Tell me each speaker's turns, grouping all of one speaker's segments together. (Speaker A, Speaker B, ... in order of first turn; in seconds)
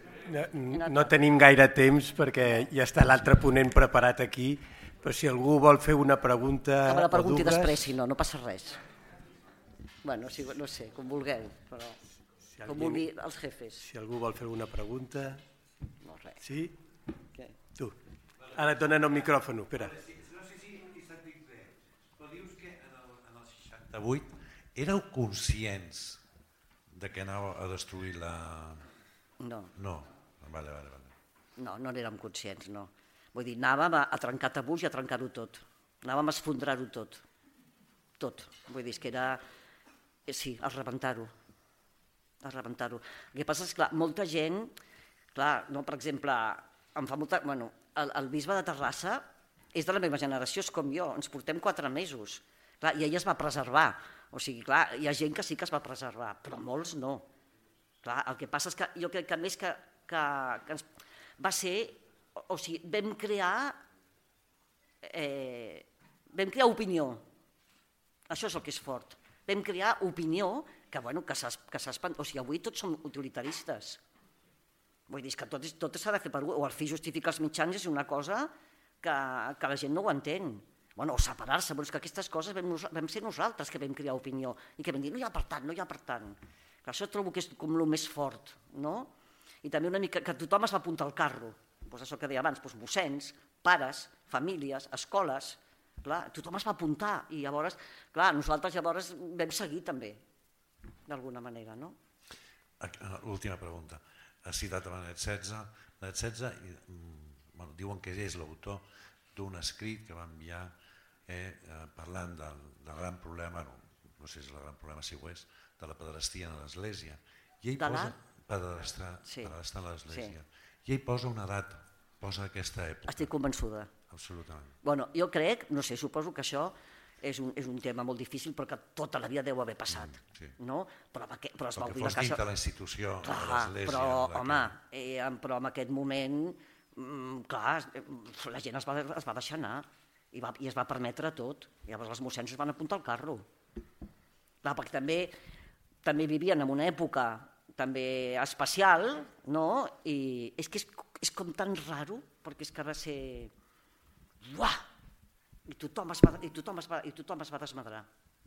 Speaker A: 0.3-7.9, 12.5-13.1, 13.8-15.4, 16.4-16.8, 18.5-20.0
Speaker B: 0.7-1.1, 6.8-8.8, 10.0-12.0, 12.6-13.9, 16.0-16.4, 29.4-29.7, 31.6-37.2, 38.2-39.4, 40.3-41.3, 42.4-44.7, 45.3-57.2, 58.0-60.9, 61.4-63.8, 65.0-67.2, 68.3-74.0, 75.1-78.5, 79.0-89.1, 89.6-100.2, 101.1-102.0, 117.8-118.1, 119.2-119.5, 123.1-123.9, 124.8-132.4, 133.2-143.4, 144.6-145.3, 146.0-153.5, 154.4-154.8, 155.7-158.1
Speaker C: 20.0-26.2, 26.9-28.8, 29.8-31.1, 102.8-110.7, 111.3-123.3, 124.1-124.8, 130.0-130.5, 131.8-134.7